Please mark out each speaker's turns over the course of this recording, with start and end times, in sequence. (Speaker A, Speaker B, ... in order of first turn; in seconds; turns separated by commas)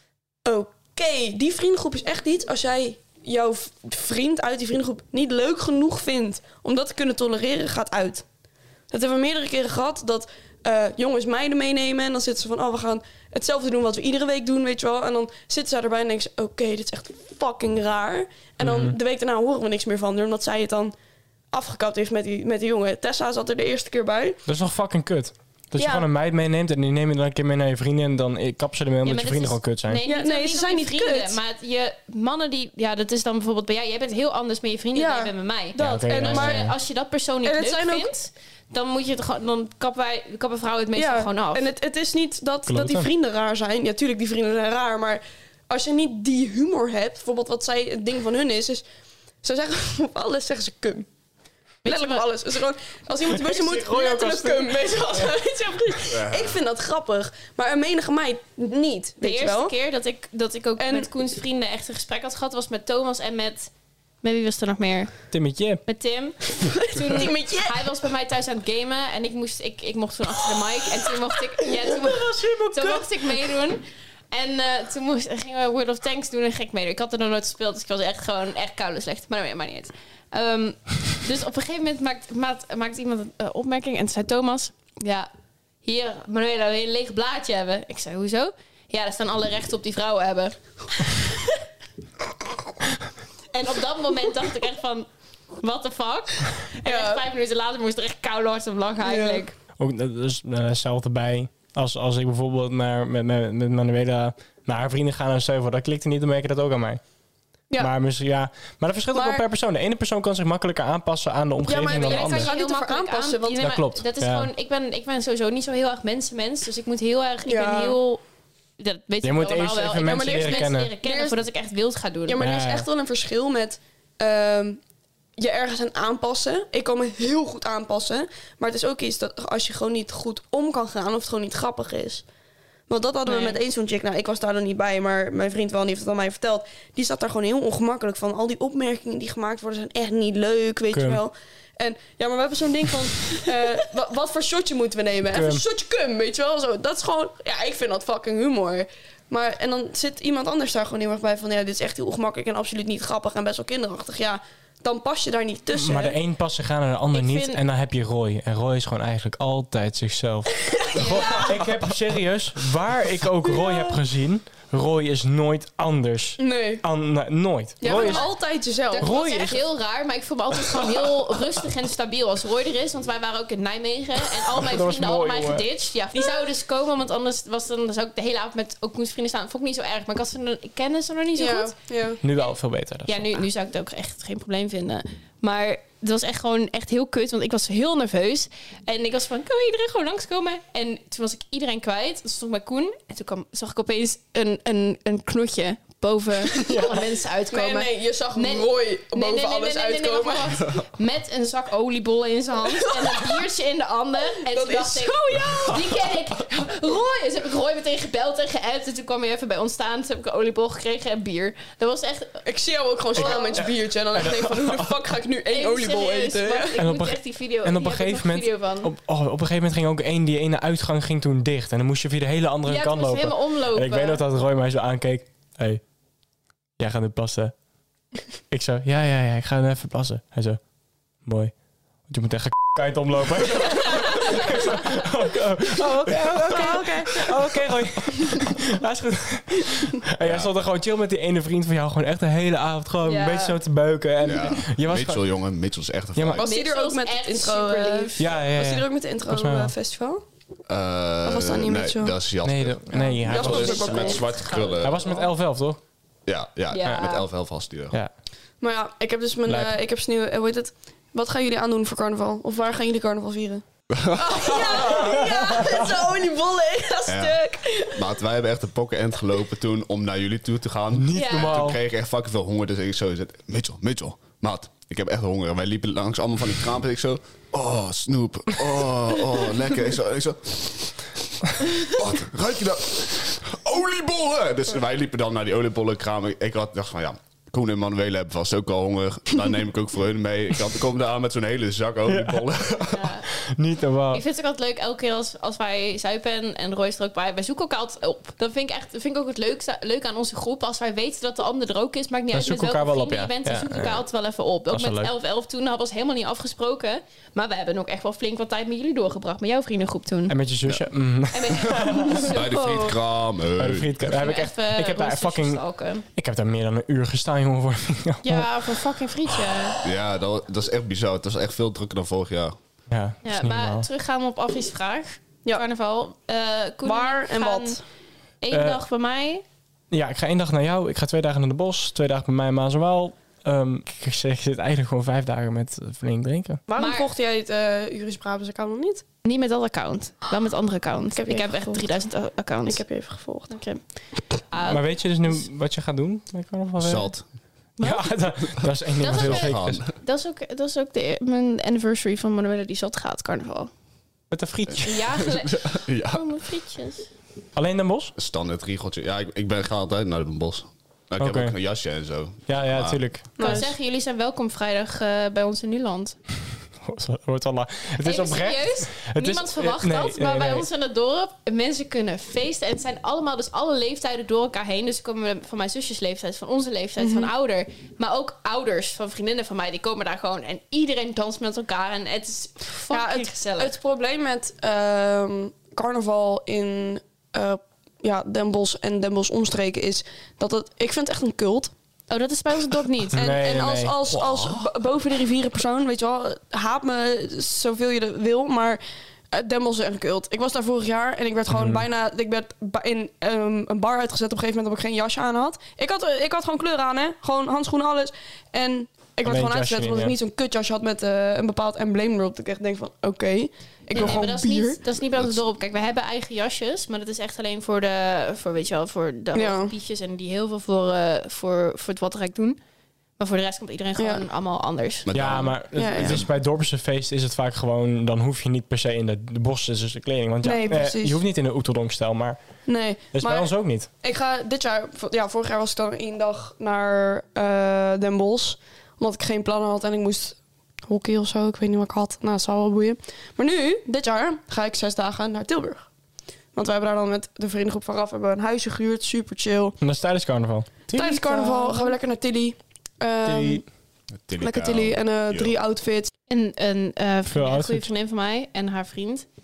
Speaker A: 0.4-8.2, Speaker A: 8.9-20.9, Speaker B: 18.6-19.0, Speaker A: 21.5-24.4, Speaker B: 24.5-30.0, Speaker A: 25.8-26.1, Speaker C: 29.0-41.7, Speaker A: 30.0-31.4, Speaker A: 34.9-36.7, Speaker B: 35.8-36.7, Speaker A: 37.4-38.1, Speaker A: 41.0-48.8, Speaker B: 42.7-43.1, Speaker A: 49.4-51.1, Speaker C: 51.8-52.2, Speaker A: 51.8-59.7, Speaker B: 53.3-55.3, Speaker D: 56.1-56.6, Speaker C: 59.2-63.7, Speaker A: 60.8-61.1, Speaker C: 64.2-65.2, Speaker B: 65.3-65.8, Speaker C: 65.8-85.3, Speaker A: 66.6-67.9, Speaker A: 71.7-73.1, Speaker C: 85.8-91.6, Speaker C: 93.5-95.1, Speaker C: 95.6-99.5, Speaker A: 96.8-97.2, Speaker A: 99.0-99.4, Speaker B: 99.8-107.0, Speaker B: 107.8-112.5, Speaker A: 109.1-109.4, Speaker A: 111.7-113.6, Speaker C: 111.9-118.2, Speaker B: 113.6-114.5, Speaker A: 117.4-118.0, Speaker C: 118.8-122.4, Speaker B: 119.2-120.9, Speaker A: 120.0-121.4, Speaker A: 122.3-124.8, Speaker B: 122.4-122.9, Speaker A: 125.4-132.2, Speaker A: 132.9-156.2, Speaker C: 133.2-133.6, Speaker B: 140.9-141.2, Speaker B: 145.3-145.6, Speaker B: 155.7-168.2, Speaker C: 157.1-157.6, Speaker C: 160.9-161.6, Speaker A: 163.5-163.9, Speaker A: 166.4-166.8, Speaker A: 167.8-169.6, Speaker C: 167.8-168.3, Speaker C: 168.9-181.7, Speaker B: 169.0-169.6, Speaker B: 174.6-175.7, Speaker A: 181.3-182.2, Speaker B: 182.2-183.2, Speaker C: 183.1-212.4, Speaker A: 196.5-197.0, Speaker A: 197.5-200.7, Speaker A: 202.9-203.4, Speaker A: 204.4-205.9, Speaker A: 212.4-216.8, Speaker C: 213.1-213.7, Speaker B: 213.2-214.9, Speaker C: 215.5-218.9, Speaker B: 216.8-225.8, Speaker C: 222.7-224.2, Speaker B: 226.8-227.5, Speaker B: 228.5-230.6, Speaker B: 231.2-231.5, Speaker B: 232.1-245.2, Speaker A: 236.1-237.4, Speaker D: 240.2-240.5, Speaker C: 243.0-243.6, Speaker D: 244.2-246.5, Speaker B: 246.2-246.4, Speaker A: 246.4-250.2, Speaker C: 246.4-248.3, Speaker B: 248.2-249.7, Speaker D: 250.7-255.2, Speaker A: 251.2-252.2, Speaker B: 252.4-253.9, Speaker A: 252.9-254.3, Speaker C: 252.9-255.2, Speaker B: 254.8-255.8, Speaker D: 256.2-258.0, Speaker C: 256.7-257.2, Speaker B: 256.8-257.1, Speaker A: 258.6-268.1, Speaker B: 259.5-259.8, Speaker D: 263.9-264.9, Speaker B: 264.9-265.9, Speaker D: 267.1-267.4, Speaker D: 267.9-280.9, Speaker B: 271.0-271.8, Speaker C: 271.1-271.5, Speaker D: 281.5-293.2, Speaker B: 292.1-292.5, Speaker C: 292.9-293.3, Speaker B: 293.4-294.2, Speaker C: 294.1-310.3, Speaker B: 302.3-304.0, Speaker B: 304.7-305.1, Speaker B: 310.3-312.2, Speaker C: 311.3-313.0, Speaker D: 312.2-314.1, Speaker B: 313.6-315.6, Speaker C: 314.1-316.1, Speaker B: 316.1-318.5, Speaker C: 318.2-319.9, Speaker D: 319.8-322.5, Speaker B: 322.9-323.9, Speaker C: 323.2-327.8, Speaker A: 326.8-327.8, Speaker C: 328.4-329.4, Speaker B: 328.5-328.8, Speaker B: 329.9-336.6, Speaker A: 336.7-339.0, Speaker C: 336.8-337.1, Speaker C: 339.2-342.8, Speaker A: 341.1-341.9, Speaker A: 342.6-343.6, Speaker C: 343.5-343.8, Speaker C: 344.4-345.4, Speaker B: 344.6-347.1, Speaker D: 346.8-347.2, Speaker C: 347.8-348.1, Speaker B: 347.8-349.8, Speaker C: 349.0-353.7, Speaker D: 349.1-349.9, Speaker B: 354.3-354.9, Speaker C: 354.8-357.1, Speaker D: 355.2-356.2, Speaker B: 357.6-358.1, Speaker D: 358.1-363.0, Speaker B: 361.2-361.6, Speaker B: 362.5-363.6, Speaker A: 363.4-363.7, Speaker C: 363.4-366.2, Speaker B: 366.8-370.7, Speaker C: 368.0-383.8, Speaker A: 377.0-377.3, Speaker A: 382.9-391.7, Speaker C: 392.1-393.2, Speaker B: 393.1-393.9, Speaker A: 393.1-398.8, Speaker D: 394.1-394.7, Speaker A: 399.3-414.8, Speaker B: 401.5-401.8, Speaker B: 409.2-410.1, Speaker C: 413.9-422.6, Speaker A: 419.3-419.7, Speaker C: 423.2-425.4, Speaker A: 424.0-424.2, Speaker D: 425.1-426.3, Speaker B: 425.1-432.4, Speaker A: 425.7-426.2, Speaker A: 430.4-431.2, Speaker A: 432.6-440.4, Speaker B: 433.1-433.9, Speaker A: 440.9-445.9, Speaker A: 446.5-449.8, Speaker B: 449.8-451.9, Speaker A: 450.9-453.6, Speaker B: 453.2-453.6, Speaker D: 454.1-455.5, Speaker A: 454.4-456.1, Speaker C: 456.3-459.2, Speaker B: 457.3-457.9